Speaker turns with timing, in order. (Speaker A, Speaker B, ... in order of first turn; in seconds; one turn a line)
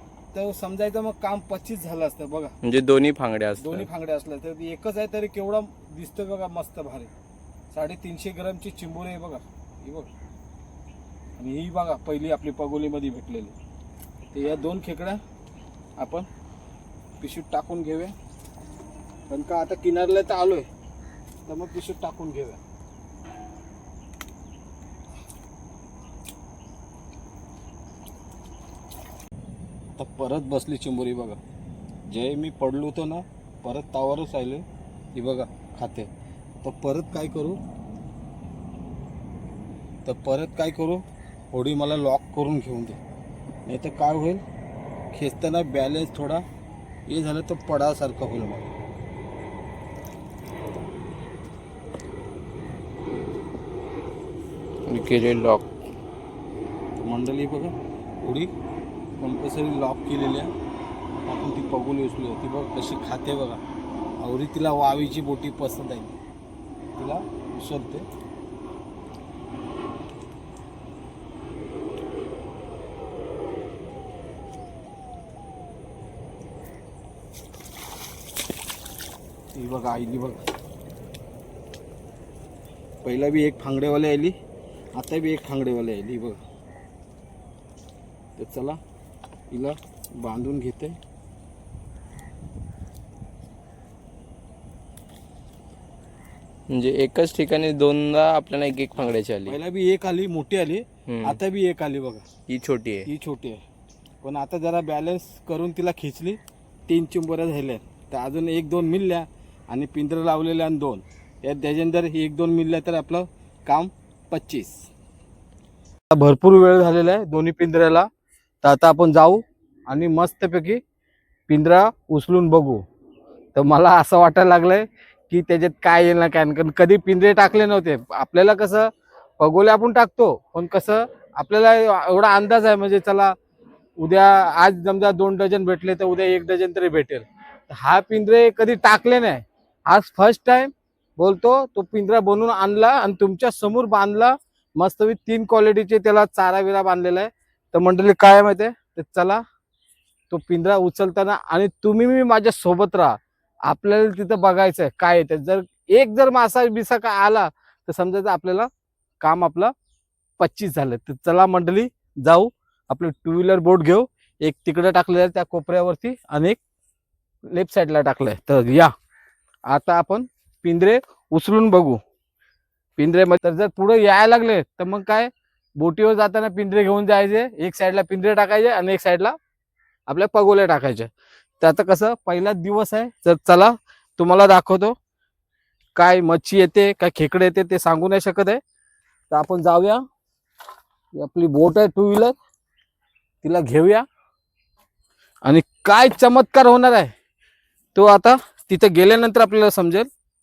Speaker A: 0.3-2.5
Speaker B: 2.6-3.9
Speaker A: 3.6-7.1
Speaker A: 7.7-10.1
Speaker A: 11.4-13.5
Speaker A: 14.3-15.2
Speaker A: 16.0-16.3
Speaker A: 17.2-18.1
Speaker A: 19.3-20.7
Speaker A: 21.5-22.6
Speaker A: 29.9-31.4
Speaker A: 32.1-34.6
Speaker A: 35.1-36.1
Speaker A: 36.6-37.6
Speaker A: 40.0-43.0
Speaker A: 43.6-44.4
Speaker A: 45.1-46.4
Speaker A: 47.1-48.7
Speaker B: 54.9-55.6
Speaker A: 57.0-58.5
Speaker A: 59.2-60.5
Speaker A: 61.2-63.6
Speaker A: 64.2-66.1
Speaker A: 67.0-68.0
Speaker A: 79.5-80.4
Speaker A: 83.0-84.3
Speaker A: 85.0-86.4
Speaker A: 88.4-88.8
Speaker A: 89.5-91.0
Speaker B: 96.7-99.5
Speaker A: 99.5-102.2
Speaker B: 101.1-101.4
Speaker B: 102.5-103.1
Speaker A: 103.0-103.6
Speaker A: 104.2-114.9
Speaker A: 116.1-118.1
Speaker A: 118.6-120.8
Speaker A: 121.5-122.8
Speaker A: 123.5-133.3
Speaker A: 134.0-149.4
Speaker A: 150.3-158.7
Speaker A: 159.2-159.7
Speaker A: 160.4-166.6
Speaker A: 167.5-168.9
Speaker A: 169.7-172.0
Speaker A: 173.0-179.4
Speaker A: 180.1-184.9
Speaker A: 185.9-188.6
Speaker A: 189.3-190.0
Speaker A: 191.2-192.3
Speaker A: 193.4-194.1
Speaker A: 195.4-197.1
Speaker A: 197.9-200.1